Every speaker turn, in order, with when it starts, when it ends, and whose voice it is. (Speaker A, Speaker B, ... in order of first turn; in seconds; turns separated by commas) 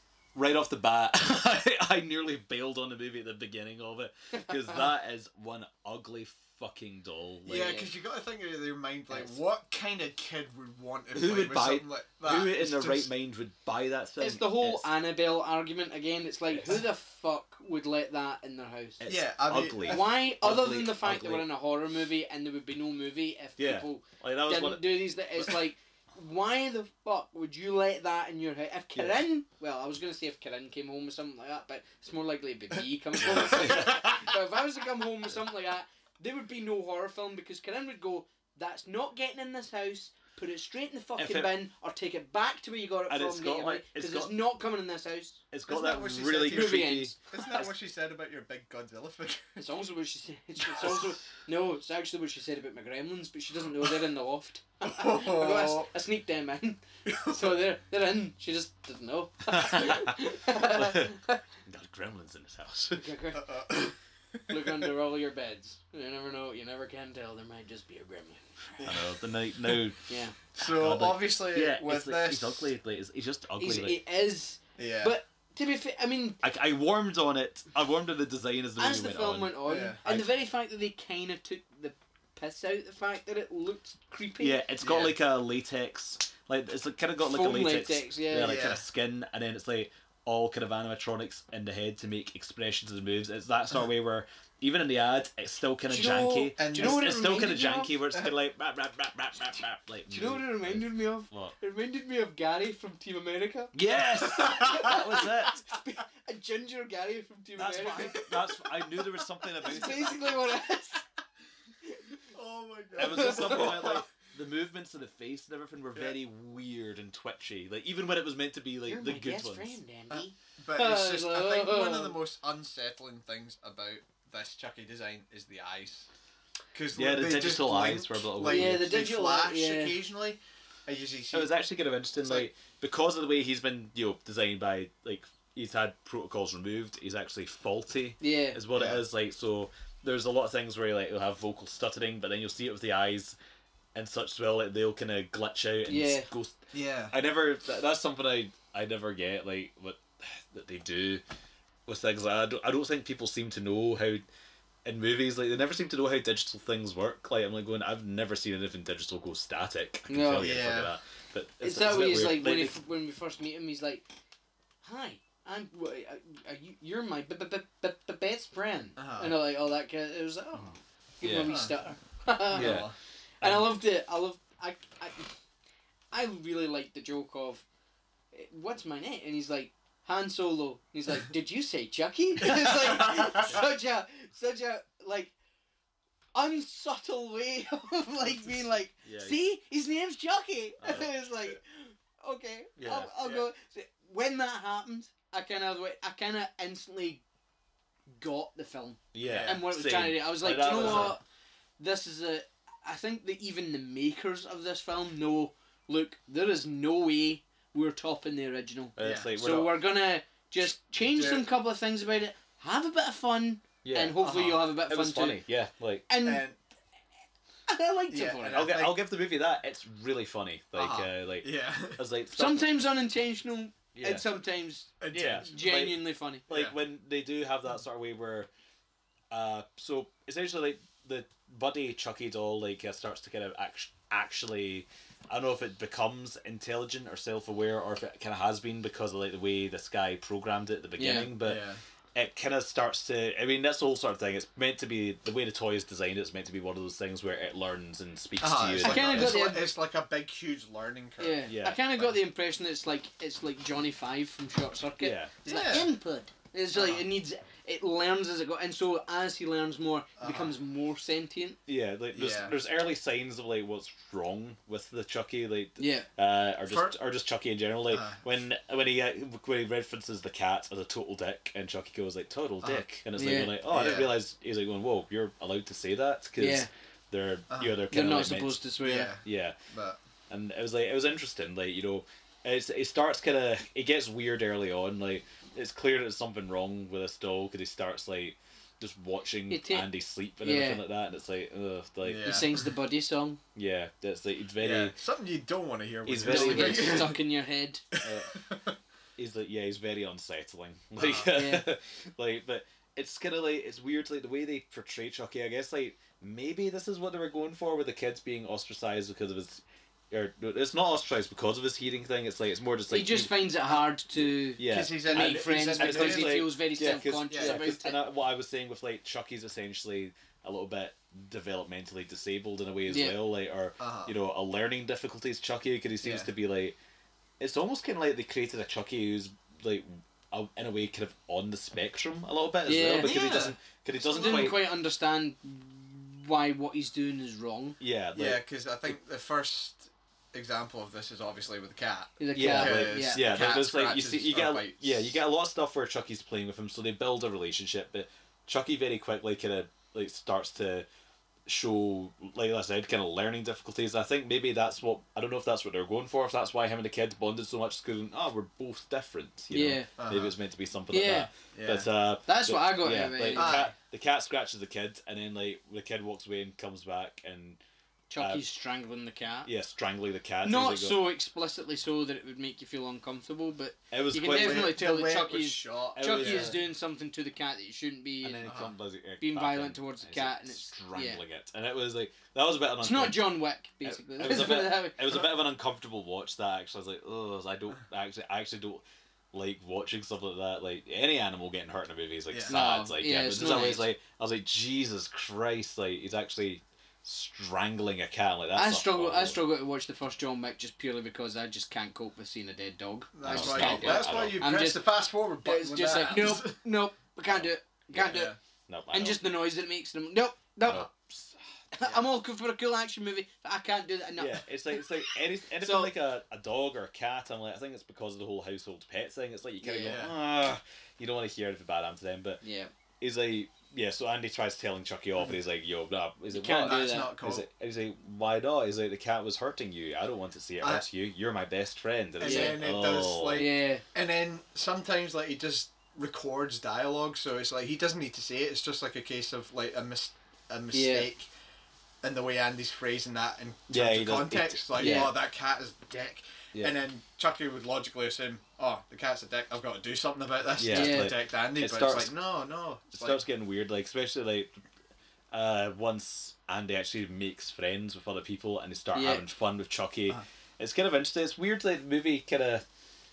Speaker A: 0.3-7.8, Speaker B: 7.5-13.1, Speaker C: 7.5-7.9, Speaker A: 11.2-14.9, Speaker C: 14.2-19.0, Speaker A: 19.0-21.5, Speaker B: 19.1-20.0, Speaker C: 19.9-45.4, Speaker A: 23.6-25.5, Speaker A: 28.9-29.2, Speaker B: 33.2-33.9, Speaker A: 33.2-34.3, Speaker A: 41.2-41.5, Speaker A: 43.1-44.4, Speaker A: 45.5-47.7, Speaker B: 45.7-49.6, Speaker C: 46.5-47.2, Speaker C: 49.6-61.4, Speaker B: 54.8-55.9, Speaker B: 57.1-57.5, Speaker A: 59.5-63.1, Speaker C: 63.0-63.7, Speaker B: 63.3-64.9, Speaker C: 64.5-69.0, Speaker B: 68.8-69.1, Speaker A: 68.8-70.0, Speaker C: 70.1-70.3, Speaker B: 70.6-72.7, Speaker A: 70.6-74.0, Speaker C: 73.6-76.4, Speaker B: 74.8-75.2, Speaker A: 76.4-80.3, Speaker C: 78.8-84.6, Speaker B: 79.7-80.0, Speaker A: 84.4-101.6, Speaker B: 84.8-85.2, Speaker C: 87.2-88.6, Speaker B: 88.3-88.8, Speaker C: 95.9-97.9, Speaker B: 96.6-97.2, Speaker C: 100.1-108.6, Speaker A: 103.8-105.6, Speaker B: 104.4-105.0, Speaker A: 107.6-110.5, Speaker C: 109.6-111.0, Speaker C: 111.9-112.2, Speaker B: 112.3-114.0, Speaker A: 113.0-119.8, Speaker C: 113.0-113.7, Speaker C: 118.9-122.2, Speaker B: 120.1-126.1, Speaker B: 126.7-131.5, Speaker A: 127.0-128.9, Speaker C: 128.4-130.0, Speaker A: 131.3-143.4, Speaker B: 132.2-132.5, Speaker C: 138.2-138.6, Speaker B: 138.7-139.0, Speaker A: 143.9-151.2, Speaker C: 145.9-146.3, Speaker B: 146.7-147.2, Speaker A: 151.9-154.2, Speaker A: 154.8-162.8, Speaker C: 160.1-160.5, Speaker B: 160.3-160.9, Speaker C: 161.6-164.1, Speaker C: 164.8-172.8, Speaker B: 169.0-169.4, Speaker A: 171.2-171.6, Speaker B: 171.5-171.7, Speaker B: 172.5-172.9, Speaker A: 172.5-173.7, Speaker C: 173.4-175.3, Speaker C: 176.1-177.7, Speaker C: 178.3-185.3, Speaker B: 182.6-183.6, Speaker C: 186.3-197.2, Speaker A: 189.1-189.4, Speaker A: 190.8-191.1, Speaker A: 192.8-193.1, Speaker B: 193.2-193.5, Speaker C: 198.1-201.2, Speaker A: 199.1-201.2, Speaker B: 199.2-199.6, Speaker B: 200.8-201.1, Speaker C: 201.8-215.4, Speaker A: 209.0-209.8, Speaker B: 209.0-209.3, Speaker B: 211.0-211.5, Speaker A: 213.8-216.1, Speaker B: 214.2-214.6, Speaker C: 216.1-216.5, Speaker B: 216.2-216.6, Speaker C: 217.7-218.6, Speaker B: 218.1-219.0, Speaker A: 218.5-222.7, Speaker B: 220.8-222.0, Speaker C: 222.3-226.4, Speaker A: 223.9-224.3, Speaker B: 225.0-225.6, Speaker A: 225.1-228.5, Speaker B: 226.5-226.8, Speaker A: 229.3-249.4, Speaker C: 241.0-241.3, Speaker B: 241.4-241.8, Speaker B: 248.4-251.5, Speaker C: 248.8-249.7, Speaker C: 251.2-261.6, Speaker A: 251.5-251.8, Speaker A: 255.0-255.7, Speaker B: 255.4-255.9, Speaker B: 256.8-257.0, Speaker B: 260.2-260.5, Speaker A: 261.7-278.6, Speaker B: 262.1-262.6, Speaker C: 265.8-266.1, Speaker B: 266.7-266.9, Speaker B: 267.9-268.2, Speaker C: 273.2-273.5, Speaker B: 273.7-274.1, Speaker C: 276.4-276.7, Speaker B: 277.5-277.8, Speaker C: 277.9-279.1, Speaker B: 278.8-280.0, Speaker A: 279.2-279.6, Speaker A: 280.3-292.5, Speaker C: 289.5-289.9, Speaker C: 290.4-290.8, Speaker B: 292.0-292.5, Speaker C: 292.2-293.4, Speaker A: 293.6-294.9, Speaker B: 294.6-297.2, Speaker A: 296.1-297.2, Speaker C: 296.2-297.8, Speaker B: 298.0-298.7, Speaker A: 298.0-298.4, Speaker A: 299.2-313.3, Speaker B: 301.0-301.3, Speaker C: 301.3-301.6, Speaker C: 312.9-318.0, Speaker A: 314.6-326.8, Speaker B: 314.7-316.4, Speaker B: 317.3-317.8, Speaker C: 322.9-323.1, Speaker B: 323.8-324.1, Speaker B: 326.0-326.3, Speaker A: 327.4-334.6, Speaker C: 332.7-333.5, Speaker B: 333.0-334.6, Speaker C: 334.0-337.8, Speaker A: 337.8-338.4, Speaker B: 338.1-345.1, Speaker C: 342.2-343.2, Speaker A: 342.4-350.9, Speaker A: 351.5-367.6, Speaker C: 359.5-359.9, Speaker B: 360.0-360.3, Speaker C: 360.9-361.3, Speaker B: 361.5-361.9, Speaker C: 362.3-363.7, Speaker B: 363.3-363.7, Speaker C: 368.1-369.5, Speaker A: 369.4-371.0, Speaker C: 370.4-378.6, Speaker A: 373.9-374.8, Speaker B: 374.2-376.6, Speaker A: 376.0-376.6, Speaker A: 378.2-399.4, Speaker B: 378.4-378.7, Speaker C: 379.2-381.2, Speaker C: 382.8-385.0, Speaker B: 392.3-392.6, Speaker C: 392.5-393.9, Speaker C: 398.6-404.9, Speaker B: 403.1-406.6, Speaker A: 403.3-404.4, Speaker C: 405.4-408.3, Speaker A: 407.3-409.2, Speaker B: 408.1-408.4, Speaker C: 408.9-410.9, Speaker A: 410.6-411.4, Speaker C: 411.7-414.9, Speaker A: 414.2-422.4, Speaker C: 415.6-415.9, Speaker C: 419.6-420.0, Speaker B: 419.9-420.2, Speaker C: 422.4-422.7, Speaker A: 423.0-433.5, Speaker C: 426.3-427.2, Speaker B: 426.6-427.5, Speaker B: 432.2-441.3, Speaker C: 432.2-432.6, Speaker C: 433.4-433.8, Speaker C: 440.7-441.1, Speaker B: 442.0-453.2, Speaker A: 443.7-445.1, Speaker C: 444.8-445.1, Speaker A: 450.6-452.1, Speaker C: 450.7-451.1, Speaker A: 452.9-454.5, Speaker A: 455.3-462.6, Speaker C: 458.9-459.2